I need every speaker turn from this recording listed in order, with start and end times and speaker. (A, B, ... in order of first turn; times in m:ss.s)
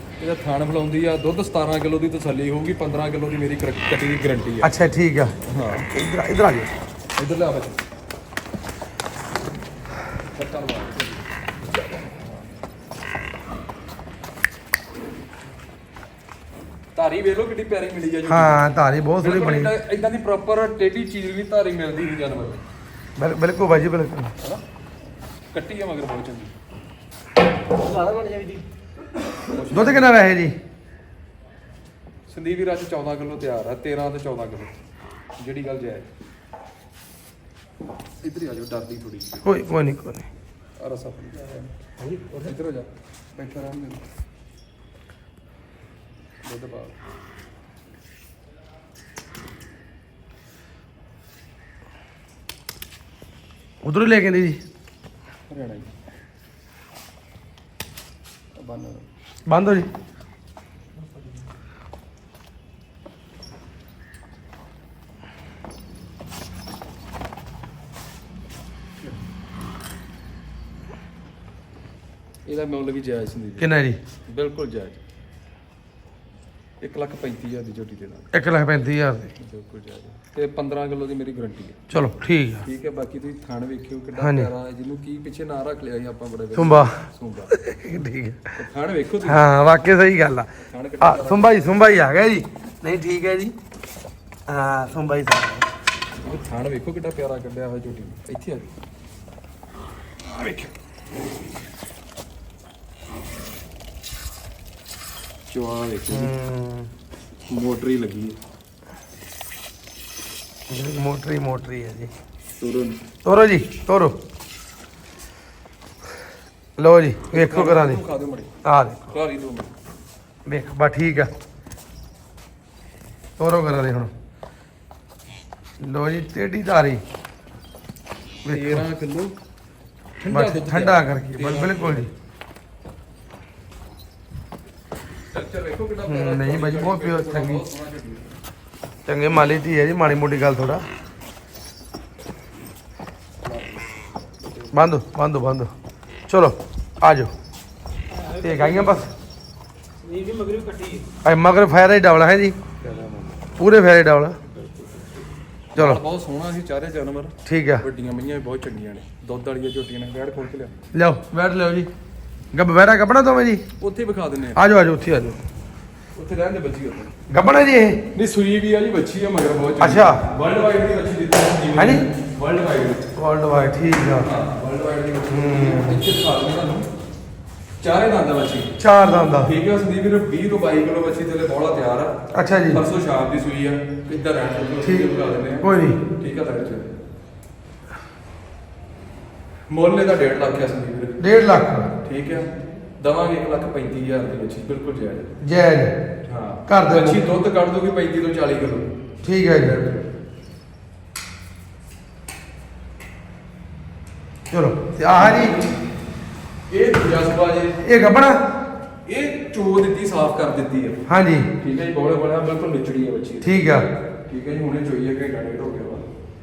0:00.2-0:04.7 A
0:04.6-0:06.7 B
0:05.5-0:05.8 A
0:07.2-0:07.8 A
0:10.3-0:11.2 A
0:12.1-0:12.4 A
0:17.0-0:18.6 A
0:18.3-0:19.7 B
0:19.2-0:22.6 A
0:23.2-0:24.3 B
0:25.5-0:26.5 A
0:27.7-0:28.6 C
0:29.5-0:30.1 A
0:29.7-0:30.6 B
0:32.3-0:34.8 A
0:35.4-0:36.1 A
0:38.2-0:39.4 A
0:39.4-0:40.3 B
0:40.8-0:41.7 A
0:42.0-0:42.5 C
0:42.3-0:44.0 A
0:46.4-0:47.0 A
0:53.8-0:54.6 B
0:55.5-0:55.9 A
0:58.6-0:59.1 A
0:59.5-0:59.9 B
1:12.5-1:13.7 A
1:13.6-1:14.0 B
1:14.3-1:15.0 A
1:16.8-1:18.3 A
1:18.3-1:19.3 B
1:19.4-1:21.8 A
1:21.9-1:22.7 B
1:22.6-1:27.6 A
1:24.2-1:24.5 B
1:26.6-1:27.0 B
1:27.5-1:28.5 B
1:28.6-1:29.4 A
1:29.2-1:30.5 B
1:30.7-1:31.8 A
1:31.0-1:33.6 B
1:34.5-1:35.7 B
1:36.2-1:38.7 A
1:40.4-1:40.7 A
1:45.5-1:46.3 A
1:46.1-1:46.9 B
1:47.5-1:48.4 A
1:50.7-1:52.1 B
1:52.6-1:53.0 A
1:53.2-1:54.2 B
1:56.8-1:58.0 B
1:57.3-1:58.5 A
1:58.6-1:59.2 B
1:59.1-1:59.7 A
2:00.5-2:01.3 B
2:03.4-2:04.1 B
2:05.8-2:07.0 B
2:08.4-2:08.8 B
2:08.5-2:09.4 A
2:10.2-2:12.1 A
2:10.3-2:12.1 B
2:15.3-2:18.4 A
2:16.1-2:17.6 B
2:19.1-2:20.9 B
2:23.4-2:24.8 A
2:24.7-2:25.7 B
2:26.3-2:27.3 B
2:28.2-2:29.0 C
2:28.4-2:29.1 B
2:30.0-2:31.1 C
2:31.2-2:32.6 B
2:32.8-2:33.4 A
2:33.6-2:34.4 B
2:34.4-2:40.8 A
2:35.8-2:36.0 B
2:37.5-2:37.8 B
2:40.9-2:41.9 B
2:42.5-2:43.6 B
2:43.8-2:44.6 A
2:44.5-2:45.4 B
2:46.1-2:47.2 A
2:47.3-2:48.0 B
2:48.1-2:53.0 A
2:49.8-2:50.2 B
2:51.8-2:52.1 B
2:53.2-2:54.3 B
2:54.2-2:56.9 A
2:55.3-2:56.1 B
2:57.8-2:58.8 A
2:58.8-2:59.5 B
2:59.4-3:06.9 A
3:02.3-3:02.8 B
3:04.8-3:06.0 B
3:09.7-3:11.2 A
3:11.2-3:11.9 B
3:12.0-3:15.3 A
3:15.4-3:15.9 B
3:16.3-3:18.9 A
3:16.7-3:17.2 B
3:19.2-3:19.8 B
3:19.6-3:20.0 A
3:24.5-3:25.6 B
3:25.2-3:25.8 A
3:26.7-3:27.9 A
3:27.8-3:28.4 B
3:29.0-3:31.1 A
3:31.1-3:31.5 B
3:31.6-3:36.0 A
3:33.4-3:33.9 B